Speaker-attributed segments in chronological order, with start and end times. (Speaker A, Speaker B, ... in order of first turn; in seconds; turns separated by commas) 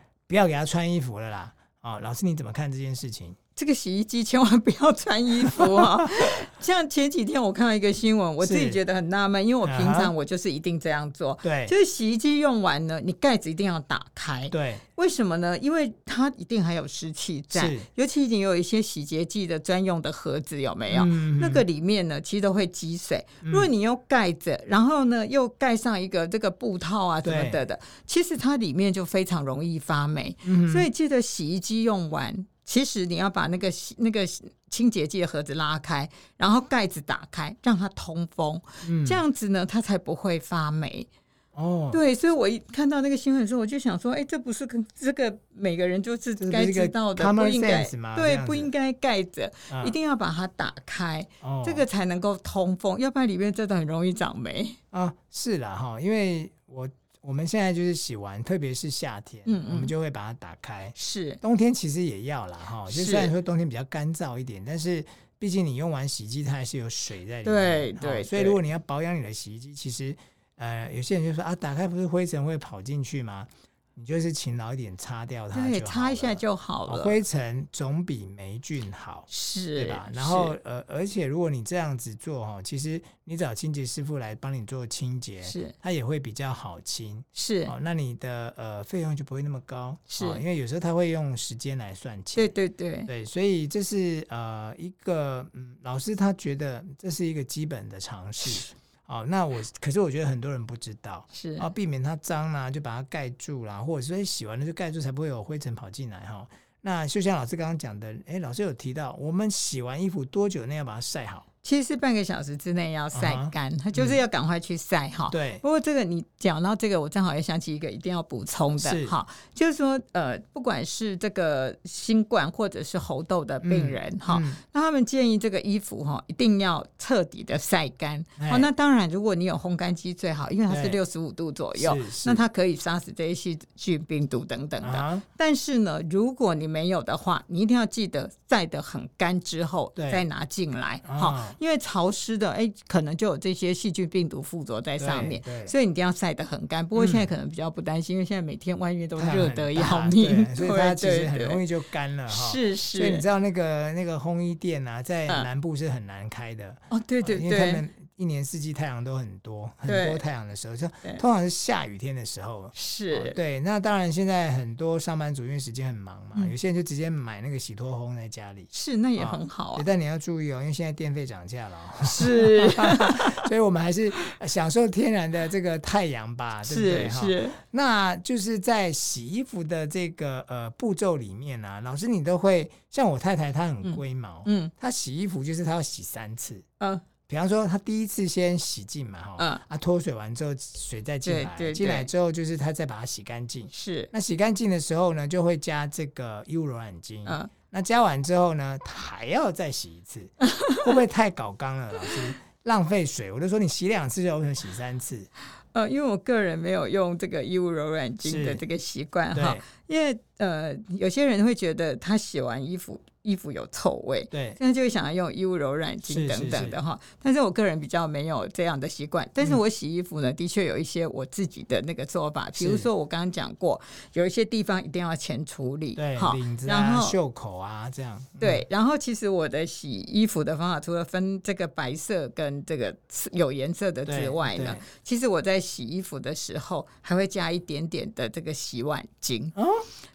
Speaker A: 0.3-3.4, Speaker B: 3.5-41.1, Speaker A: 5.5-5.8, Speaker A: 8.4-8.8, Speaker A: 9.6-10.1, Speaker A: 11.4-11.7, Speaker A: 14.5-14.8, Speaker A: 17.5-17.9, Speaker A: 20.9-21.6, Speaker A: 23.4-23.7, Speaker A: 27.2-27.6, Speaker A: 30.4-30.9, Speaker A: 38.8-39.2, Speaker A: 41.5-42.0, Speaker B: 41.9-54.8, Speaker A: 46.4-48.7, Speaker A: 49.7-49.9, Speaker A: 51.4-51.8, Speaker A: 54.9-92.5, Speaker B: 59.5-59.9, Speaker B: 60.9-61.4, Speaker B: 62.9-63.3, Speaker B: 67.4-68.6, Speaker B: 75.5-77.2, Speaker B: 79.3-80.5, Speaker B: 85.4-85.7, Speaker B: 87.3-87.7, Speaker B: 90.1-90.4, Speaker B: 92.3-93.1, Speaker A: 93.1-111.4, Speaker B: 101.3-101.7, Speaker B: 111.6-151.6, Speaker A: 113.1-114.2, Speaker A: 115.3-115.6, Speaker A: 118.8-119.2, Speaker A: 123.6-124.6, Speaker A: 128.4-128.7, Speaker A: 130.7-131.0, Speaker A: 131.8-132.4, Speaker A: 134.8-135.2, Speaker A: 139.9-140.2, Speaker A: 141.1-141.6, Speaker A: 145.0-145.7, Speaker A: 146.9-147.3, Speaker A: 149.2-186.6, Speaker B: 152.3-153.2, Speaker B: 156.9-157.8, Speaker B: 159.8-160.3, Speaker B: 162.7-163.4, Speaker B: 168.7-169.9, Speaker B: 172.0-173.4, Speaker B: 176.6-177.6, Speaker B: 183.8-184.7, Speaker B: 186.8-187.0, Speaker A: 187.3-205.3, Speaker B: 189.4-189.6, Speaker B: 191.2-192.1, Speaker B: 193.7-194.1, Speaker B: 197.2-197.5, Speaker B: 200.4-200.8, Speaker B: 205.7-227.2, Speaker A: 208.2-208.6, Speaker A: 209.3-209.6, Speaker A: 214.3-214.6, Speaker A: 216.1-216.8, Speaker A: 222.5-222.9, Speaker A: 225.9-228.6, Speaker B: 228.4-239.5, Speaker A: 234.1-234.8, Speaker A: 239.6-239.8